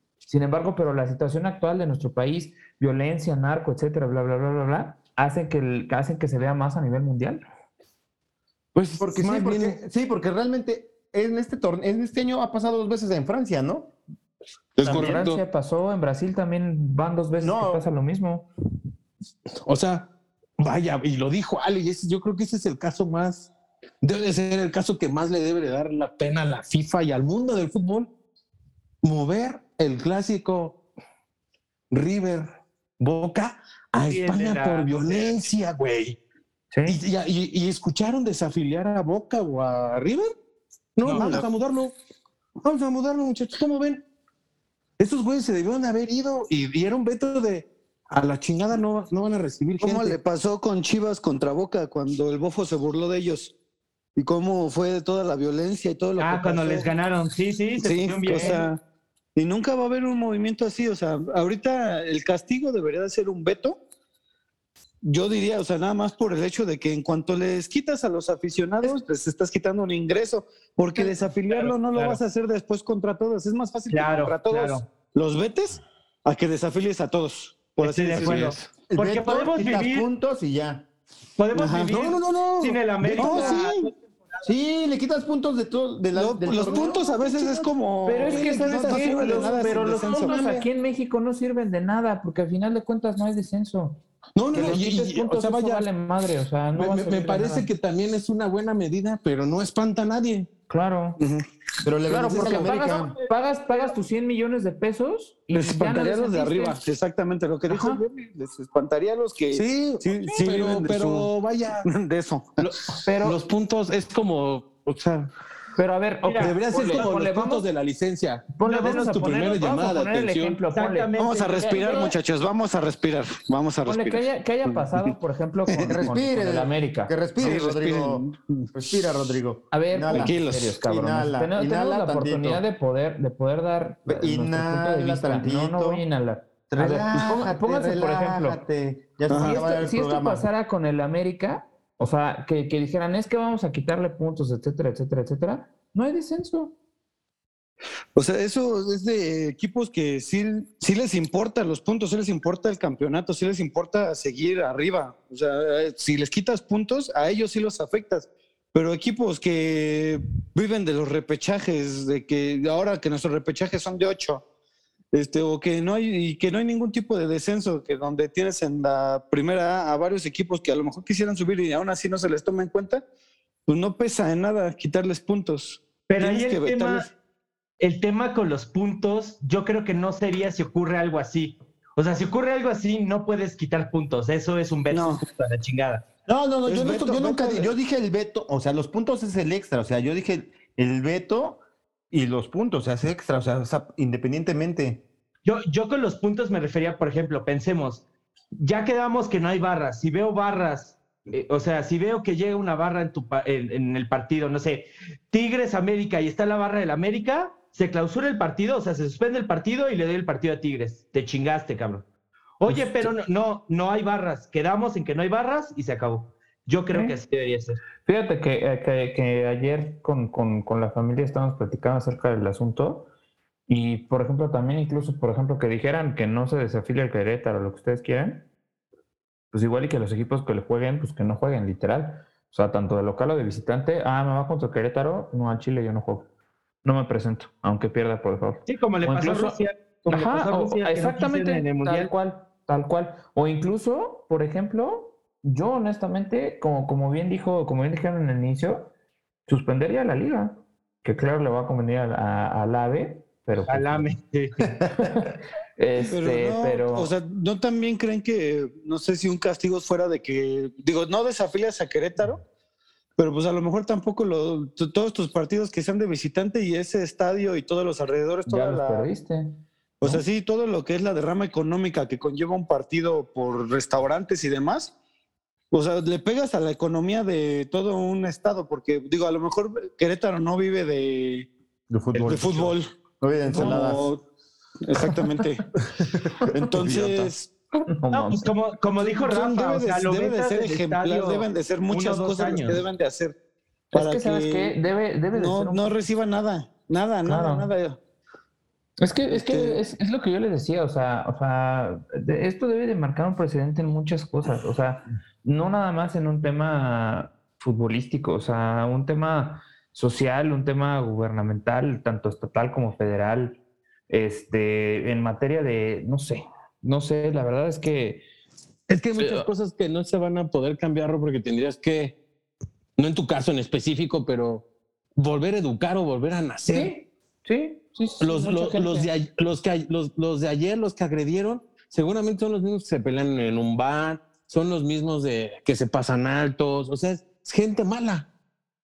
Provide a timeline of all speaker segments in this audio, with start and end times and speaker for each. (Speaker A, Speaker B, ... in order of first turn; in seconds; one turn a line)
Speaker A: 0.2-7.4
Speaker B: 8.7-9.8
Speaker C: 9.0-13.9
Speaker B: 14.8-15.4
Speaker A: 14.8-18.5
Speaker C: 17.4-17.8
Speaker B: 19.6-23.5
Speaker B: 24.0-28.1
Speaker B: 29.0-30.8
Speaker B: 31.9-32.5
Speaker B: 33.0-36.2
Speaker D: 34.0-35.4
Speaker A: 36.7-37.0
Speaker B: 36.9-40.3
Speaker B: 41.0-41.9
Speaker D: 41.0-41.4
Speaker E: 41.1-41.5
Speaker B: 42.6-44.0
Speaker B: 45.0-50.2
Speaker E: 49.8-53.5
Speaker E: 54.1-56.9
Speaker D: 56.2-58.7
Speaker E: 57.8-58.8
Speaker E: 59.4-63.8
Speaker E: 65.0-78.6
Speaker D: 71.0-72.2
Speaker D: 73.9-74.8
Speaker D: 77.8-80.1
Speaker B: 78.1-78.6
Speaker C: 78.9-80.9
Speaker D: 81.4-84.5
Speaker E: 81.5-82.0
Speaker B: 81.9-83.6
Speaker E: 83.2-83.9
Speaker C: 84.4-87.7
Speaker E: 86.1-90.4
Speaker A: 88.0-94.0
Speaker B: 88.1-90.7
Speaker B: 94.3-95.9
Speaker A: 94.5-97.7
Speaker B: 96.8-100.5
Speaker A: 100.7-101.2
Speaker E: 101.2-101.5
Speaker C: 101.8-103.1
Speaker A: 102.1-106.8
Speaker B: 102.3-102.7
Speaker D: 103.1-103.8
Speaker E: 105.5-111.3
Speaker A: 107.7-108.0
Speaker B: 109.5-111.8
Speaker E: 111.8-112.9
Speaker B: 112.6-115.3
Speaker A: 113.0-113.4
Speaker A: 115.8-117.7
Speaker D: 116.2-117.1
Speaker B: 116.4-120.6
Speaker A: 118.5-122.2
Speaker D: 118.6-119.3
Speaker D: 120.7-122.0
Speaker E: 121.2-125.1
Speaker A: 123.8-127.2
Speaker C: 125.8-132.6
Speaker E: 127.4-128.7
Speaker A: 129.7-138.6
Speaker E: 130.1-130.8
Speaker C: 134.1-136.0
Speaker C: 136.7-140.5
Speaker E: 137.1-137.5
Speaker E: 139.3-139.7
Speaker A: 139.3-146.7
Speaker E: 148.2-164.4
Speaker E: 165.1-173.0
Speaker E: 173.7-177.1
Speaker D: 176.1-177.1
Speaker D: 177.8-186.0
Speaker E: 184.9-185.2
Speaker C: 186.3-195.0
Speaker E: 186.7-187.7
Speaker D: 195.4-212.1
Speaker D: 212.6-217.8
Speaker A: 212.7-213.1
Speaker A: 216.9-217.2
Speaker A: 218.0-223.1
Speaker A: 223.7-228.4
Speaker A: 229.5-236.3
Speaker A: 236.8-248.9
Speaker D: 238.7-242.1
Speaker A: 249.5-254.1
Speaker D: 253.7-254.6
Speaker C: 254.8-255.1
Speaker A: 254.9-257.1
Speaker E: 256.0-262.4
Speaker E: 263.2-269.1
Speaker A: 268.4-270.2
Speaker E: 270.0-274.9
Speaker E: 275.7-281.5
Speaker C: 281.9-284.1
Speaker E: 282.2-282.9
Speaker E: 283.5-284.2
Speaker E: 284.8-285.6
Speaker A: 285.0-285.4
Speaker C: 285.9-286.5
Speaker A: 286.4-286.7
Speaker E: 286.5-287.5
Speaker B: 286.8-287.3
Speaker A: 287.8-288.5
Speaker D: 288.1-292.8
Speaker E: 289.0-293.3
Speaker A: 293.9-295.9
Speaker E: 293.9-294.8
Speaker E: 295.3-298.0
Speaker A: 297.2-297.7
Speaker A: 299.0-318.2
Speaker E: 299.3-299.8
Speaker B: 318.9-322.2
Speaker A: 319.2-319.5
Speaker B: 323.0-324.6
Speaker B: 325.1-326.9
Speaker A: 326.6-329.1
Speaker B: 328.2-338.3